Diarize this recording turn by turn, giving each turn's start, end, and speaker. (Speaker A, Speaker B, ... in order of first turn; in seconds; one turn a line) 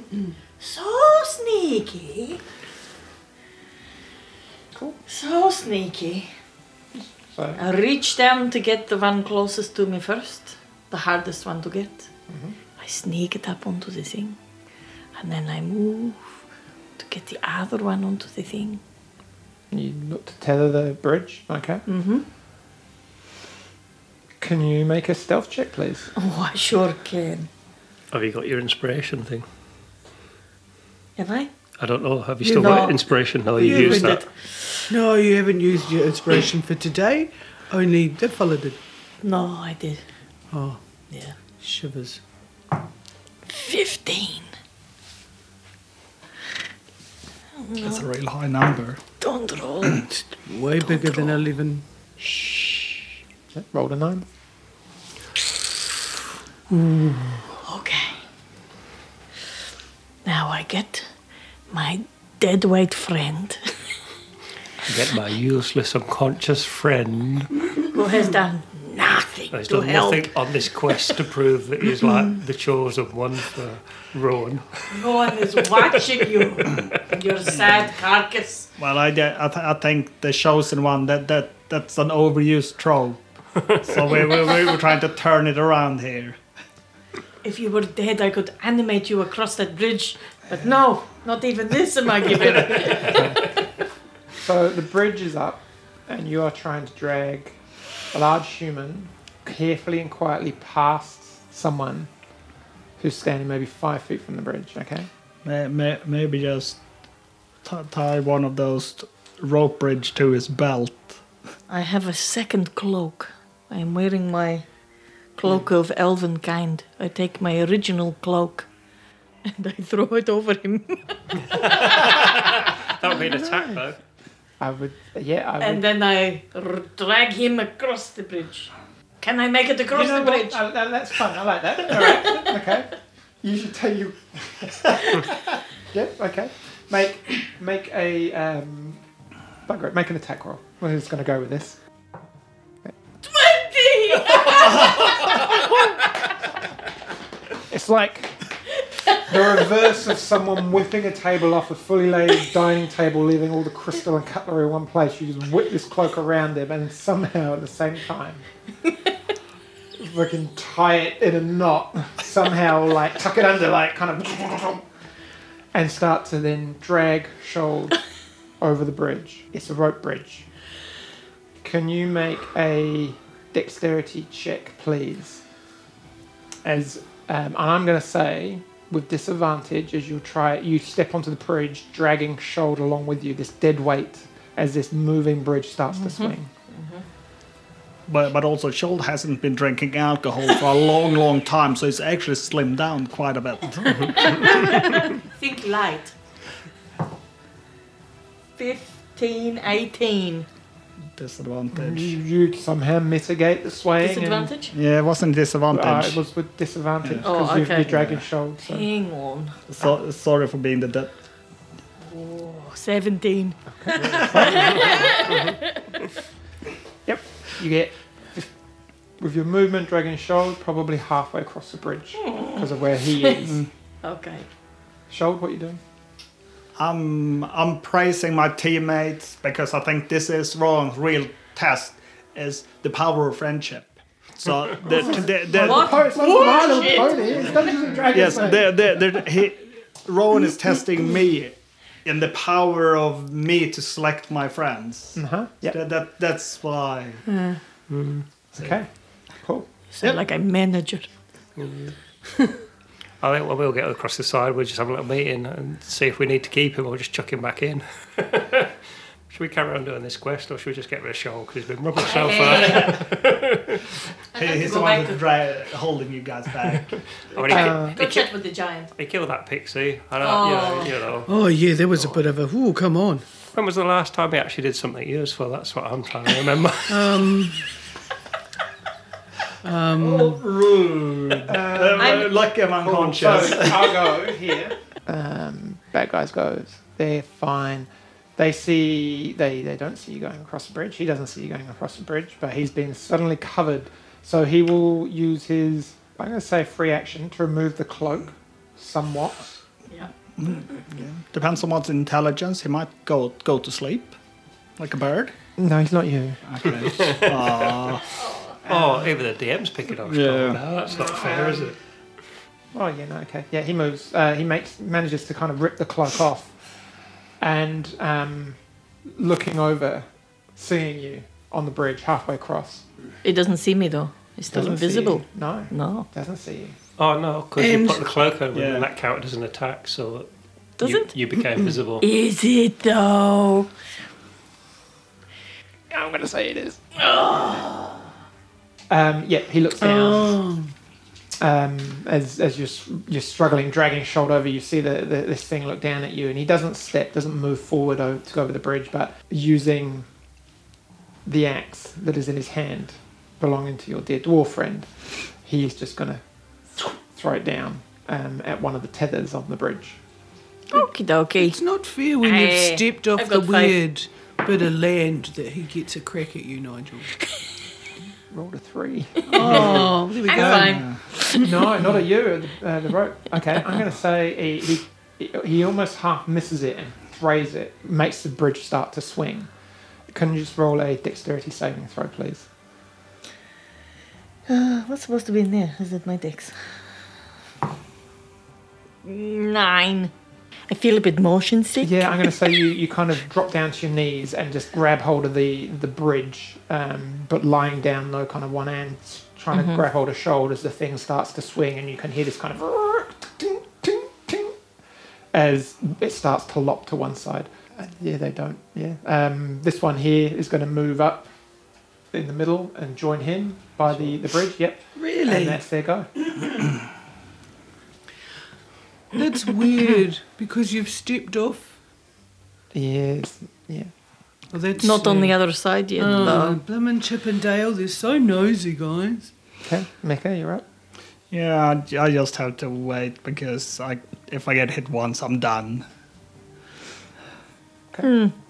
Speaker A: 0.6-2.4
Speaker B: 4.7-5.0
Speaker A: 5.1-6.3
Speaker B: 6.9-7.6
Speaker A: 7.5-12.1
Speaker B: 12.3-12.5
Speaker A: 12.8-14.4
Speaker A: 15.2-16.3
Speaker A: 17.0-18.8
Speaker B: 19.7-21.8
Speaker A: 21.9-22.2
Speaker B: 24.4-26.1
Speaker A: 26.1-27.5
Speaker C: 28.1-29.4
Speaker A: 31.2-31.5
Speaker C: 31.8-34.2
Speaker D: 32.4-33.0
Speaker A: 32.6-32.9
Speaker D: 33.6-34.3
Speaker A: 33.6-34.2
Speaker D: 34.9-38.8
Speaker A: 39.2-40.0
Speaker D: 40.5-40.8
Speaker D: 41.6-42.2
Speaker A: 43.5-44.5
Speaker A: 47.6-48.0
Speaker E: 47.8-49.0
Speaker A: 49.2-50.1
Speaker D: 50.2-51.8
Speaker A: 50.8-51.4
Speaker A: 52.2-52.9
Speaker B: 53.5-54.3
Speaker A: 57.6-58.2
Speaker A: 60.2-61.1
Speaker A: 61.7-63.7
Speaker C: 64.8-67.6
Speaker A: 67.9-70.3
Speaker C: 69.5-76.1
Speaker A: 74.9-78.7
Speaker E: 78.8-86.4
Speaker A: 87.4-93.4
Speaker B: 92.6-93.5
Speaker B: 94.4-97.5
Speaker B: 98.1-102.1
Speaker B: 103.0-105.1
Speaker E: 105.4-106.8
Speaker E: 107.6-111.2
Speaker A: 111.7-114.6
Speaker A: 115.3-118.7
Speaker A: 119.4-121.8
Speaker C: 121.5-124.0
Speaker B: 124.6-125.8
Speaker A: 125.6-130.6
Speaker B: 129.9-132.9
Speaker B: 133.4-139.0
Speaker B: 139.7-141.8
Speaker A: 143.2-146.1
Speaker B: 147.7-148.4
Speaker A: 148.9-149.2
Speaker B: 149.2-158.4
Speaker B: 159.9-164.8
Speaker B: 165.7-168.0
Speaker B: 168.6-170.5
Speaker B: 171.6-175.4
Speaker B: 176.6-186.5
Speaker A: 186.0-187.0
Speaker E: 188.1-194.5
Speaker A: 193.8-196.1
Speaker A: 198.6-200.5
Speaker E: 201.2-202.2
Speaker B: 201.7-204.5
Speaker A: 204.0-204.7
Speaker E: 204.7-206.2
Speaker B: 205.7-208.9
Speaker A: 207.2-208.0
Speaker E: 207.8-208.2
Speaker A: 208.6-209.6
Speaker E: 209.7-211.1
Speaker A: 212.1-215.9
Speaker B: 213.7-215.3
Speaker B: 217.0-218.5
Speaker B: 219.2-223.6
Speaker A: 222.2-222.6
Speaker A: 223.1-223.5
Speaker A: 224.0-224.5
Speaker B: 225.1-225.8
Speaker E: 226.8-237.5
Speaker B: 234.8-238.7
Speaker A: 235.5-237.6
Speaker E: 238.1-247.2
Speaker B: 245.1-245.8
Speaker A: 247.2-247.6
Speaker C: 247.9-248.2
Speaker B: 248.5-248.9
Speaker B: 249.4-249.7
Speaker A: 249.9-251.1
Speaker C: 251.6-251.9
Speaker C: 253.2-258.7
Speaker C: 259.3-264.0
Speaker A: 262.0-263.0
Speaker E: 262.4-262.9
Speaker A: 264.3-265.2
Speaker E: 264.3-267.0
Speaker C: 266.7-268.3
Speaker A: 267.4-268.9
Speaker B: 267.5-268.0
Speaker C: 268.9-271.3
Speaker A: 270.2-270.9
Speaker D: 271.2-273.2
Speaker C: 271.9-272.2
Speaker C: 273.5-277.2
Speaker D: 276.9-277.6
Speaker D: 279.6-280.4
Speaker E: 279.9-284.1
Speaker B: 281.4-299.5
Speaker A: 282.0-282.3
Speaker E: 300.4-304.1
Speaker E: 304.8-305.3
Speaker B: 305.6-306.4
Speaker E: 306.5-308.1
Speaker C: 306.8-308.0
Speaker B: 308.6-309.2
Speaker C: 308.6-311.8
Speaker E: 310.1-310.6
Speaker B: 310.8-311.7
Speaker B: 312.7-316.5
Speaker B: 317.4-322.8
Speaker A: 323.2-326.1
Speaker B: 324.5-326.8
Speaker C: 327.0-330.3
Speaker D: 327.6-328.1
Speaker E: 328.5-328.9
Speaker A: 330.8-331.1
Speaker C: 330.8-332.0
Speaker A: 332.0-333.7
Speaker B: 335.9-336.8
Speaker A: 337.0-337.9
Speaker B: 338.9-340.4
Speaker D: 339.8-340.7
Speaker B: 341.4-350.1
Speaker B: 351.2-356.2
Speaker B: 356.7-360.0
Speaker A: 360.7-361.6
Speaker D: 361.4-367.2
Speaker A: 362.2-363.8
Speaker B: 368.3-369.9
Speaker D: 369.3-371.4
Speaker A: 369.3-371.6
Speaker E: 370.3-371.0
Speaker B: 371.4-379.5
Speaker B: 380.1-382.5
Speaker A: 384.5-386.9
Speaker A: 389.0-390.1
Speaker A: 390.7-392.1
Speaker B: 391.8-404.5
Speaker A: 399.5-399.8
Speaker B: 405.3-411.3
Speaker B: 412.1-416.1
Speaker D: 414.9-415.6
Speaker D: 419.1-421.7
Speaker B: 422.7-423.9
Speaker D: 424.5-425.4
Speaker A: 424.8-426.6
Speaker D: 426.0-429.3
Speaker B: 429.6-430.6
Speaker E: 431.3-435.8
Speaker A: 438.0-438.3